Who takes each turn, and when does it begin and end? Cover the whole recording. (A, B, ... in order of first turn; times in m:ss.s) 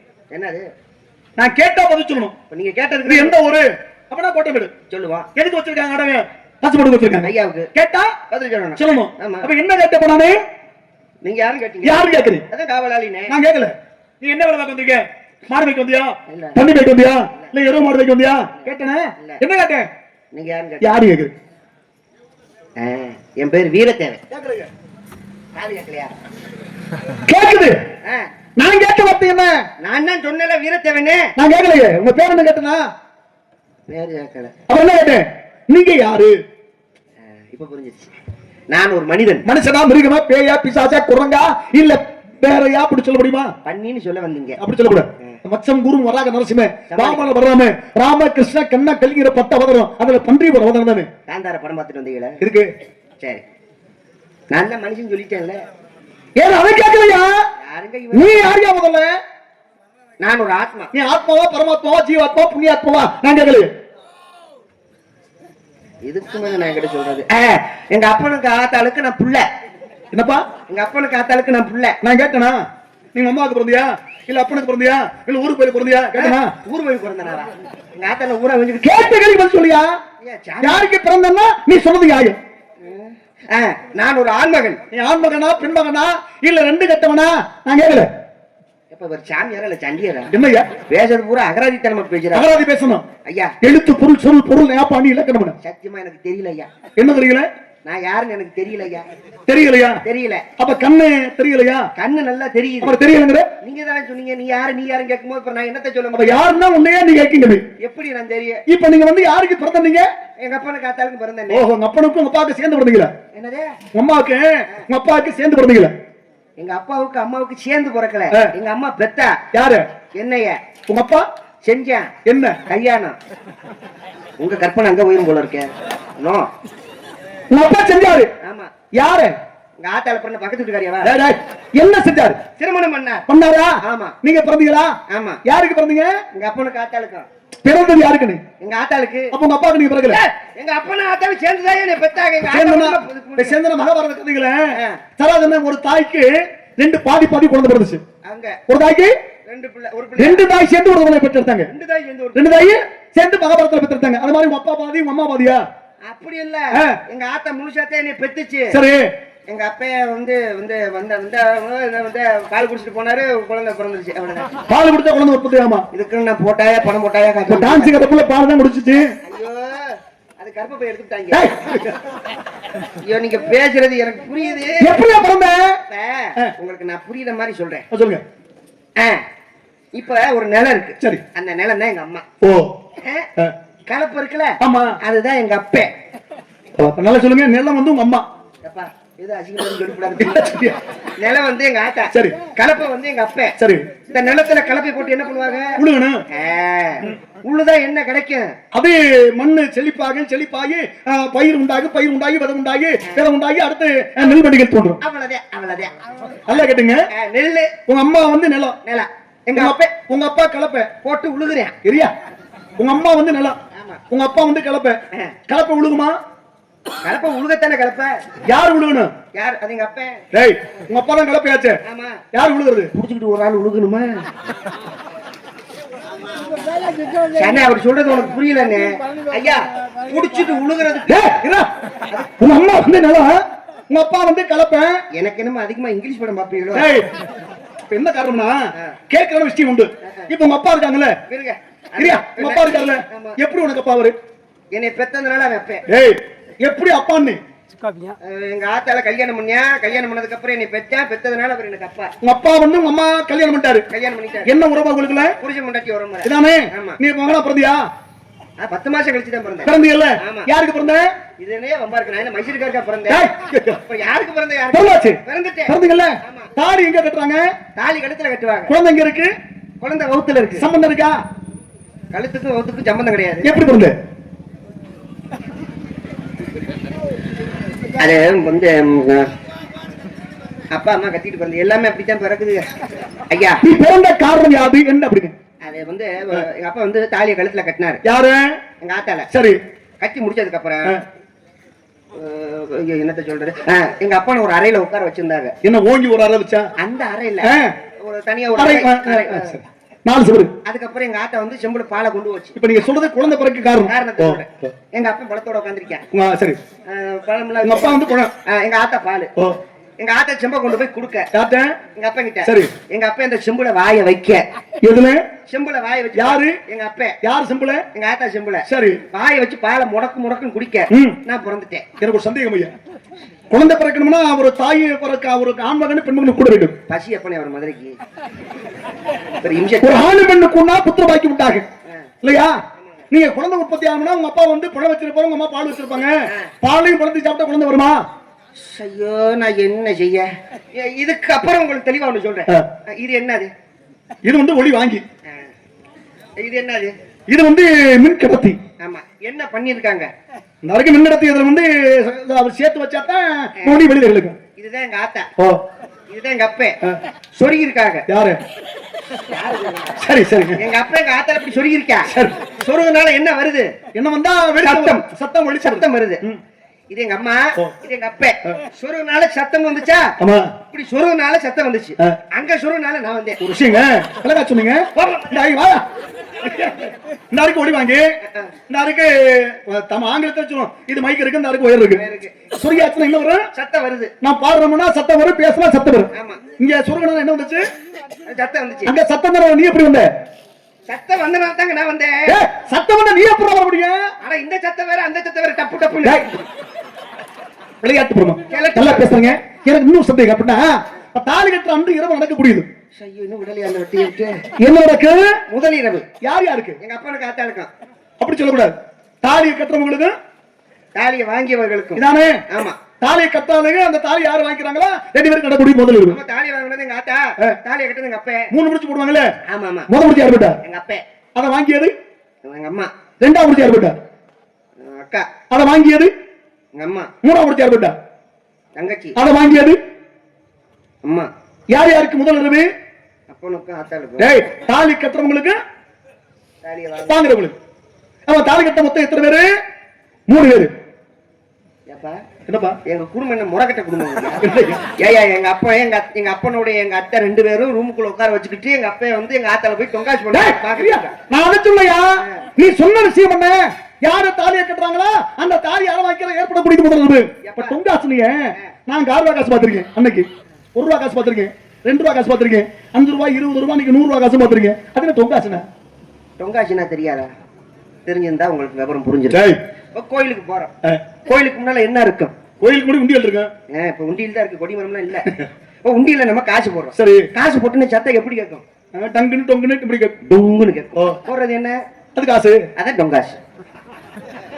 0:00.3-0:00.6 A
0:01.4-0:02.3 B
0:02.5-0:03.4 A
0:03.0-0:04.7 B
0:04.9-0:05.3 A
0:05.4-0:08.1 B
0:07.2-0:07.7 A
0:08.3-0:09.5 A
0:08.8-0:10.4 B
0:11.2-0:13.3 A
0:11.8-0:12.4 B
0:13.3-0:19.9 B
0:16.3-0:16.6 A
0:18.5-0:19.4 A
0:20.3-0:21.0 A
0:20.8-0:21.3 B
0:22.8-0:24.2 A
0:24.3-0:24.7 B
0:25.6-0:26.2 A
0:27.3-0:27.8 B
0:28.6-0:29.5 B
0:29.8-0:31.3 A
0:31.4-0:32.8 B
0:33.9-0:34.5 A
0:34.7-0:36.4 B
0:37.3-0:38.1 A
0:38.7-0:39.4 A
0:39.4-0:43.5 B
0:43.6-0:44.6 A
0:44.6-0:51.1 B
0:46.9-0:47.2 A
0:51.3-0:52.4 A
0:52.4-0:52.7 B
0:54.5-0:55.6 A
0:56.4-0:57.4 B
0:57.6-0:58.6 A
0:58.1-0:59.1 B
1:00.2-1:00.9 A
1:00.9-1:03.7 B
1:06.0-1:09.4 A
1:10.1-1:10.4 B
1:10.7-1:12.0 A
1:12.0-1:12.6 B
1:13.1-1:16.5 B
1:16.1-1:18.9 A
1:18.8-1:20.0 B
1:20.2-1:20.9 A
1:20.6-1:22.4 B
1:22.8-1:24.8 A
1:24.9-1:28.1 B
1:28.9-1:30.3 A
1:30.3-1:30.7 B
1:30.9-1:32.5 A
1:32.3-1:33.0 B
1:33.2-1:33.5 A
1:33.6-1:35.6 B
1:35.6-1:36.7 A
1:37.0-1:37.5 B
1:37.8-1:39.0 A
1:39.5-1:40.0 B
1:40.0-1:40.4 A
1:40.6-1:41.8 B
1:42.0-1:43.0 A
1:42.8-1:43.5 B
1:43.6-1:46.4 A
1:46.1-1:47.6 B
1:47.8-1:48.6 A
1:48.7-1:50.1 B
1:50.4-1:51.7 A
1:51.5-1:53.1 B
1:53.3-1:53.7 A
1:53.9-1:55.9 B
1:56.6-1:59.4 A
1:59.5-1:59.8 B
2:00.2-2:00.6 A
2:00.9-2:01.2 B
2:01.6-2:02.1 A
2:02.2-2:02.6 B
2:02.6-2:03.2 A
2:04.4-2:06.5 A
2:07.5-2:08.3 B
2:08.4-2:08.7 A
2:08.9-2:09.3 B
2:09.8-2:11.1 A
2:11.0-2:12.4 B
2:12.6-2:13.2 A
2:13.3-2:14.9 B
2:13.8-2:14.2 A
2:15.1-2:15.4 A
2:15.4-2:16.2 B
2:16.3-2:17.3 A
2:17.6-2:18.4 B
2:18.6-2:19.3 A
2:19.3-2:20.2 B
2:20.1-2:23.6 A
2:22.5-2:24.6 B
2:24.7-2:25.0 A
2:25.2-2:28.0 B
2:28.2-2:28.6 A
2:28.7-2:29.1 B
2:29.5-2:30.5 A
2:30.2-2:31.7 B
2:31.6-2:32.4 A
2:32.3-2:35.6 B
2:36.1-2:38.8 A
2:38.7-2:39.0 B
2:39.5-2:44.5 A
2:44.7-2:45.8 B
2:45.9-2:47.9 A
2:47.5-2:49.0 B
2:49.2-2:51.5 A
2:51.3-2:52.0 B
2:53.0-2:54.9 A
2:54.8-2:55.8 B
2:55.9-2:57.8 A
2:57.9-2:58.2 B
2:59.0-2:59.2 A
2:59.9-3:02.2 A
3:02.4-3:02.7 B
3:03.0-3:03.3 A
3:03.9-3:05.9 A
3:04.6-3:05.0 B
3:06.8-3:08.2 B
3:08.6-3:10.4 A
3:10.2-3:10.8 B
3:11.2-3:13.6 A
3:13.6-3:13.8 B
3:14.1-3:15.8 A
3:15.8-3:16.2 B
3:16.3-3:18.5 A
3:18.7-3:25.0 B
3:25.0-3:26.0 A
3:26.5-3:27.0 B
3:27.1-3:27.8 A
3:27.9-3:28.8 B
3:28.8-3:29.9 A
3:29.5-3:30.9 B
3:31.0-3:31.8 A
3:31.8-3:32.1 B
3:32.8-3:33.6 B
3:33.7-3:34.0 A
3:34.1-3:36.2 B
3:37.0-3:38.2 A
3:38.4-3:39.1 B
3:39.3-3:40.2 A
3:40.3-3:41.8 B
3:41.8-3:42.2 A
3:42.3-3:42.9 B
3:42.9-3:44.2 A
3:47.3-3:51.1 A
3:51.1-3:51.7 B
3:52.4-3:55.0 B
3:55.1-3:56.9 A
3:56.7-3:57.1 B
3:57.9-4:01.2 B
4:00.0-4:00.3 A
4:01.3-4:03.4 A
4:02.0-4:04.1 B
4:04.7-4:05.8 A
4:05.9-4:07.4 B
4:08.2-4:12.1 A
4:12.2-4:13.8 B
4:13.9-4:14.5 A
4:14.4-4:15.4 B
4:15.3-4:17.0 A
4:16.2-4:17.8 B
4:18.6-4:20.5 A
4:19.6-4:21.1 B
4:21.4-4:23.2 A
4:23.1-4:23.8 B
4:23.8-4:26.5 A
4:24.7-4:27.4 B
4:27.8-4:28.7 A
4:28.7-4:29.3 B
4:29.8-4:30.7 A
4:30.6-4:31.1 B
4:32.1-4:33.5 A
4:33.4-4:33.9 B
4:38.0-4:39.3 A
4:40.7-4:42.6 A
4:43.3-4:43.6 A
4:43.6-4:45.3 B
4:45.6-4:48.0 A
4:48.0-4:48.6 B
4:48.8-4:49.3 A
4:49.3-4:49.6 B
4:50.0-4:51.0 A
4:52.1-4:55.5 A
4:55.6-4:56.7 B
4:56.8-4:59.6 A
4:57.4-4:57.7 B
4:58.6-5:00.5 B
5:00.6-5:02.6 A
5:02.6-5:04.7 B
5:03.8-5:06.0 A
5:06.1-5:06.6 B
5:06.9-5:09.3 A
5:07.6-5:08.3 B
5:10.0-5:11.3 A
5:11.3-5:11.7 B
5:12.0-5:14.4 A
5:12.4-5:12.7 B
5:14.8-5:15.2 B
5:15.5-5:17.2 A
5:16.1-5:16.6 B
5:17.2-5:17.8 B
5:17.9-5:21.8 A
5:18.7-5:19.0 B
5:20.9-5:21.2 B
5:22.0-5:22.7 B
5:23.5-5:26.8 B
5:26.9-5:28.0 A
5:29.4-5:30.1 A
5:29.8-5:31.6 B
5:32.2-5:32.6 B
5:32.8-5:33.0 A
5:33.1-5:38.0 B
5:38.6-5:43.5 A
5:44.2-5:45.0 B
5:45.3-5:45.5 A
5:46.4-5:46.9 A
5:47.3-5:48.6 B
5:48.8-5:50.1 A
5:50.6-5:54.4 B
5:54.6-5:55.3 A
5:56.1-5:56.8 A
5:57.3-5:58.0 A
5:58.1-5:58.4 B
5:59.3-6:00.0 A
6:00.0-6:00.6 B
6:00.6-6:03.7 A
6:02.1-6:02.3 B
6:03.9-6:06.4 B
6:04.6-6:05.1 A
6:05.6-6:06.2 A
6:06.9-6:10.1 A
6:10.2-6:10.5 B
6:10.7-6:13.4 A
6:13.4-6:15.8 B
6:14.9-6:15.5 A
6:16.4-6:18.0 B
6:18.2-6:18.5 A
6:18.7-6:22.0 B
6:21.9-6:22.4 A
6:22.6-6:23.4 B
6:23.5-6:24.1 A
6:24.2-6:27.6 B
6:26.1-6:26.4 A
6:28.2-6:28.9 A
6:28.8-6:30.1 B
6:30.9-6:32.3 A
6:32.3-6:34.0 B
6:34.2-6:36.4 A
6:36.0-6:36.3 B
6:37.8-6:42.7 B
6:38.5-6:39.2 A
6:42.9-6:44.4 A
6:44.6-6:45.4 B
6:45.5-6:46.1 A
6:46.2-6:46.8 B
6:46.8-6:47.7 A
6:48.2-6:50.1 B
6:50.9-6:52.8 A
6:52.0-6:52.4 B
6:53.0-6:56.2 B
6:56.1-6:58.5 A
6:58.5-6:59.3 B
6:59.5-6:59.9 A
6:59.9-7:00.6 B
7:00.6-7:01.0 A
7:01.4-7:01.9 B
7:02.4-7:02.9 A
7:03.2-7:04.0 B
7:04.8-7:05.3 A
7:05.5-7:06.1 B
7:06.8-7:07.1 A
7:07.2-7:07.9 B
7:08.8-7:09.2 A
7:09.2-7:09.8 B
7:11.0-7:11.3 A
7:11.7-7:12.7 B
7:13.3-7:14.3 A
7:14.2-7:15.6 B
7:16.6-7:17.2 A
7:17.1-7:17.5 B
7:18.3-7:19.4 B
7:20.3-7:20.7 B
7:21.9-7:22.2 A
7:22.5-7:22.8 B
7:22.8-7:31.1 A
7:24.4-7:24.9 B
7:30.3-7:45.6 B
7:37.4-7:37.8 A
7:46.4-7:47.3 A
7:48.0-7:50.7 A
7:49.3-7:49.6 B
7:51.2-7:52.3 A
7:52.6-7:53.5 B
7:53.7-7:55.3 A
7:55.8-7:58.6 A
7:56.9-7:57.3 B
7:58.9-8:00.2 B
8:00.2-8:01.8 A
8:02.2-8:02.6 B
8:02.8-8:03.4 A